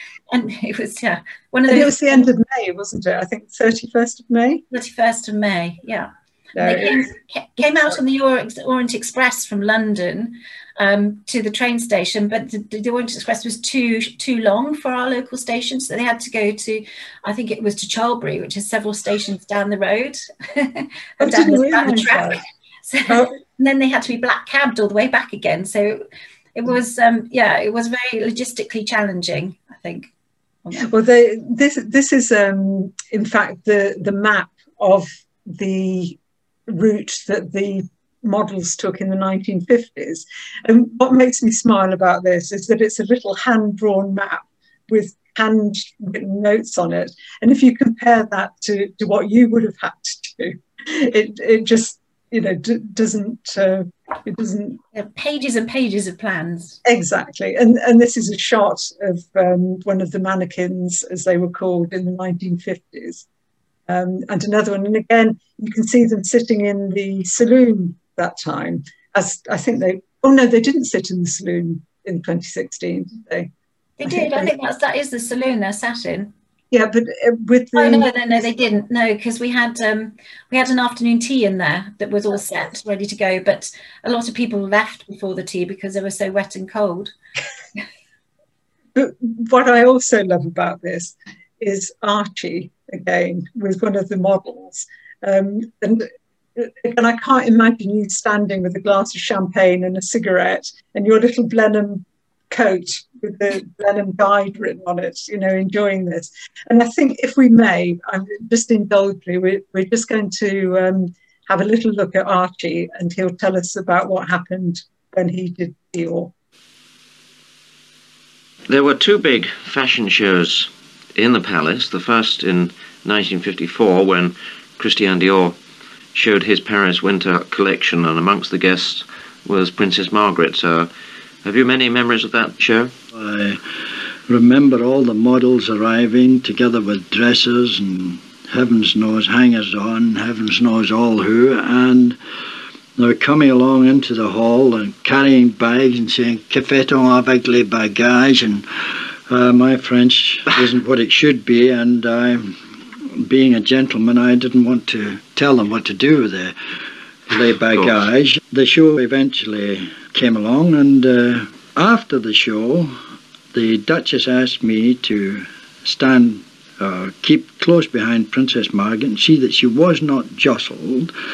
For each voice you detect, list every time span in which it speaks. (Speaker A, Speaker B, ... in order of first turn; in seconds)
Speaker A: 0.3-2.3, 4.7-26.0, 26.5-30.1, 30.6-30.9, 54.9-56.8, 74.0-76.3, 77.7-87.1
Speaker B: 1.7-4.6, 6.5-7.0, 21.2-22.4, 30.8-54.8, 56.8-63.2, 63.9-73.5, 74.0-74.5, 76.7-78.1, 88.9-116.3
Speaker C: 118.7-125.5, 126.1-130.9, 131.4-132.9
Speaker D: 133.1-133.6, 134.3-142.2, 143.0-148.7, 149.3-156.5, 157.3-162.9, 163.5-171.1